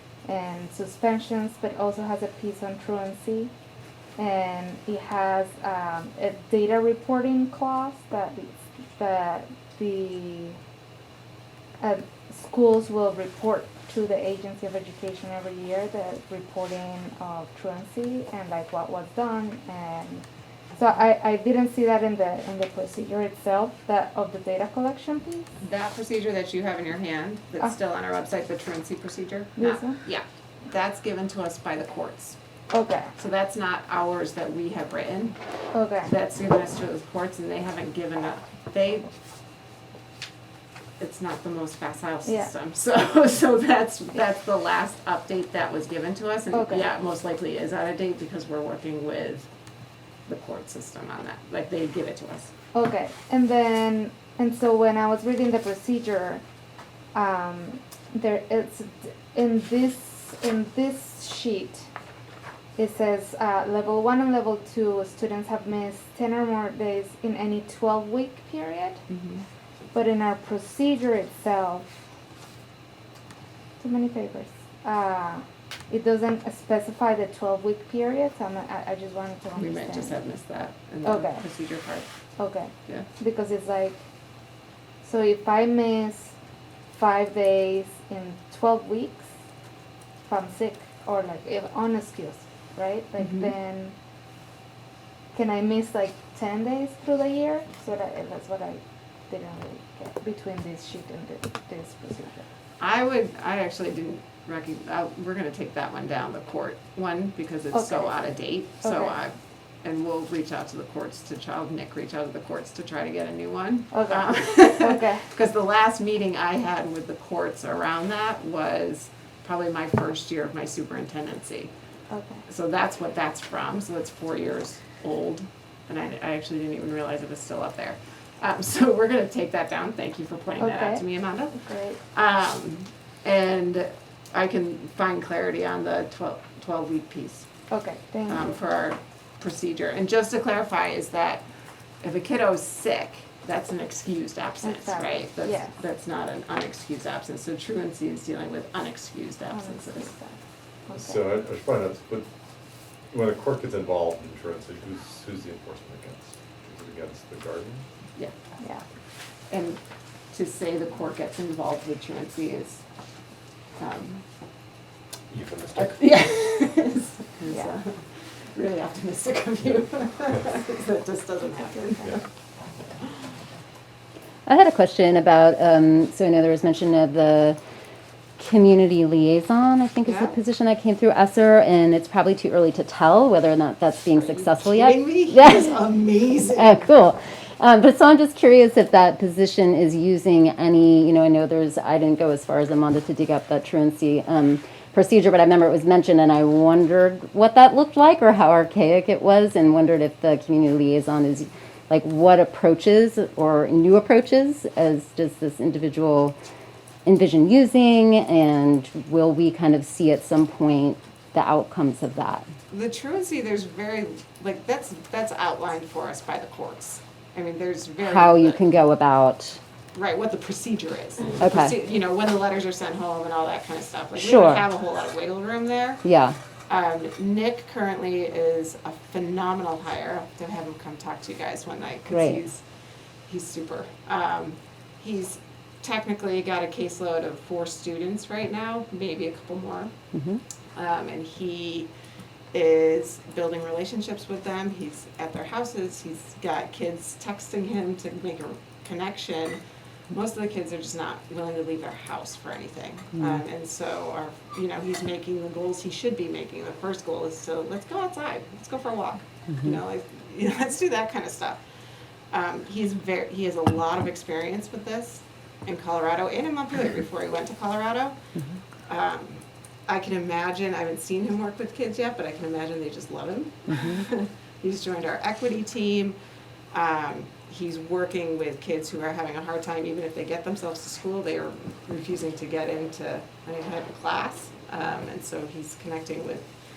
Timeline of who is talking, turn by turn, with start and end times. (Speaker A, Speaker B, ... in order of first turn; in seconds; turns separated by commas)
Speaker A: 0.3-3.5, Speaker A: 4.2-10.6, Speaker A: 11.8-20.3, Speaker A: 20.8-25.5, Speaker B: 25.6-32.4, Speaker A: 29.6-30.0, Speaker A: 32.7-33.1, Speaker B: 33.2-35.4, Speaker A: 35.7-36.1, Speaker B: 36.0-39.1, Speaker B: 41.0-49.5, Speaker A: 46.5-46.9, Speaker B: 50.3-52.5, Speaker A: 52.7-56.4, Speaker A: 57.1-61.9, Speaker A: 62.8-69.0, Speaker B: 69.1-69.4, Speaker A: 69.9-72.0, Speaker A: 73.8-80.2, Speaker B: 79.6-82.1, Speaker A: 81.0-81.4, Speaker A: 82.4-84.0, Speaker A: 85.0-86.3, Speaker A: 86.9-89.3, Speaker A: 90.3-94.0, Speaker B: 93.2-93.5, Speaker A: 95.3-102.5, Speaker B: 102.8-121.7, Speaker A: 107.7-108.2, Speaker A: 108.8-109.2, Speaker A: 113.9-115.3, Speaker A: 122.1-122.4, Speaker B: 122.5-131.6, Speaker A: 130.6-132.0, Speaker B: 132.1-137.5, Speaker A: 137.7-138.5, Speaker B: 138.3-141.4, Speaker B: 142.0-150.1, Speaker A: 144.6-145.7, Speaker A: 149.5-150.4, Speaker A: 150.9-151.2, Speaker C: 150.9-152.3, Speaker C: 153.1-157.8, Speaker B: 159.5-159.8, Speaker B: 160.3-162.8, Speaker B: 163.8-164.2, Speaker C: 165.3-166.2, Speaker B: 165.8-167.9, Speaker A: 167.5-167.7, Speaker B: 168.5-172.2, Speaker A: 171.8-172.2, Speaker D: 174.5-177.6, Speaker D: 178.4-185.8, Speaker B: 180.0-180.4, Speaker B: 184.1-186.9, Speaker D: 186.4-206.4, Speaker D: 207.1-212.5, Speaker B: 212.7-218.6, Speaker D: 218.0-219.6, Speaker B: 219.9-226.0, Speaker D: 221.4-221.7, Speaker D: 224.2-224.6, Speaker D: 226.0-226.4, Speaker B: 226.7-232.6, Speaker D: 232.1-232.4, Speaker B: 233.3-239.9, Speaker D: 240.1-240.4, Speaker B: 240.8-241.9, Speaker B: 242.5-249.6, Speaker B: 250.1-261.6, Speaker B: 262.3-268.2, Speaker B: 268.9-276.2, Speaker B: 276.7-286.5